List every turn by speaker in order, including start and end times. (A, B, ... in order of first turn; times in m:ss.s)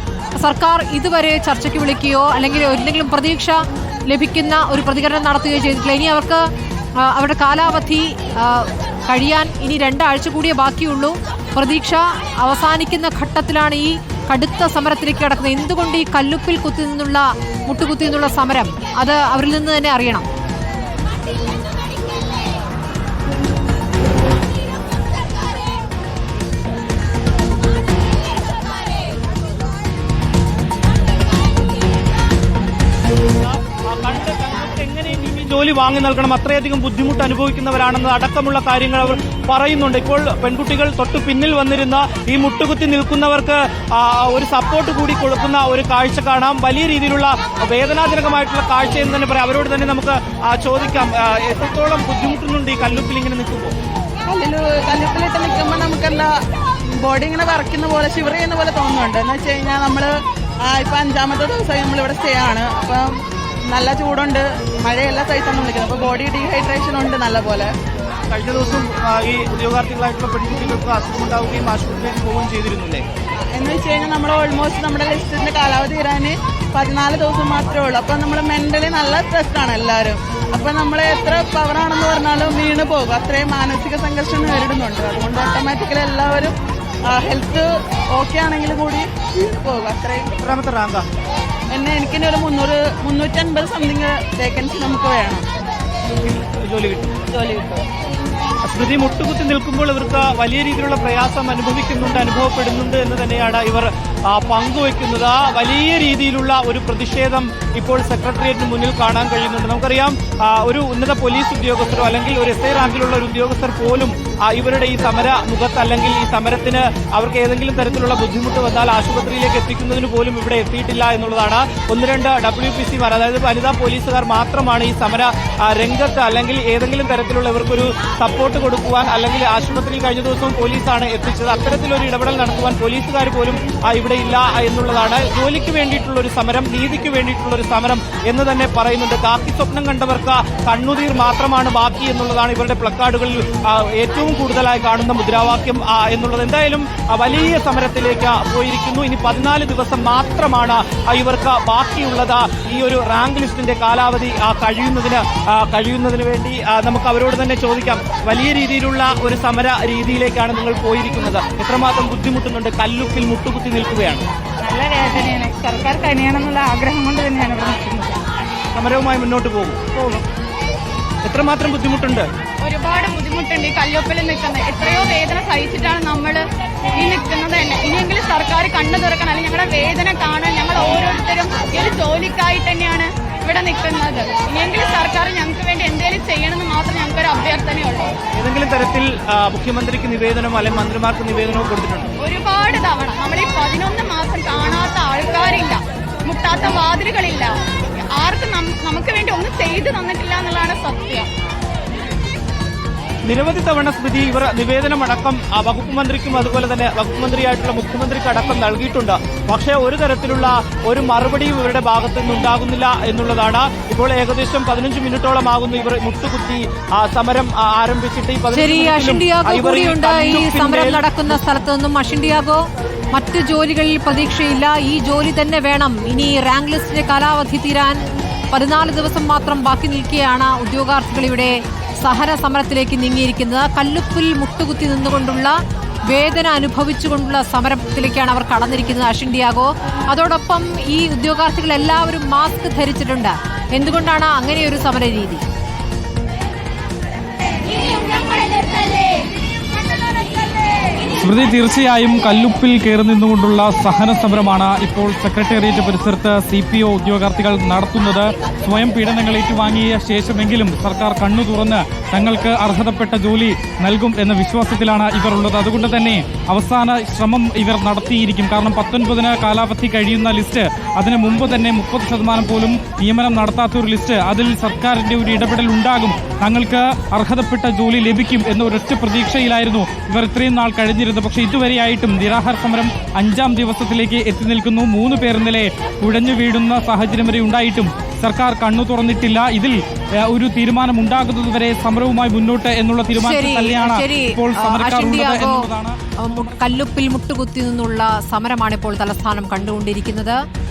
0:00.4-0:03.6 A
0:04.1-0:06.4 A
0:07.0-0:20.3 A
0:33.4-0:53.8 B
0:54.3-0:56.3 C
0:57.0-1:03.1 C
1:03.7-1:07.7 C
1:08.3-1:13.0 B
1:13.5-1:26.5 C
1:27.1-1:30.3 C
1:30.4-1:31.0 B
1:31.7-1:35.4 C
1:36.2-1:37.8 B
1:38.6-2:44.3 B
2:44.6-2:48.2 D
2:48.8-2:50.2 B
2:51.2-2:52.3 B
2:52.6-2:56.4 D
2:57.0-3:08.1 D
3:08.4-3:12.1 B
3:12.2-3:21.3 D
3:23.3-3:41.4 B
3:38.5-3:48.0 A
3:48.5-3:55.6 A
3:56.1-4:05.4 A
4:11.2-4:56.0 E
4:53.2-5:00.4 A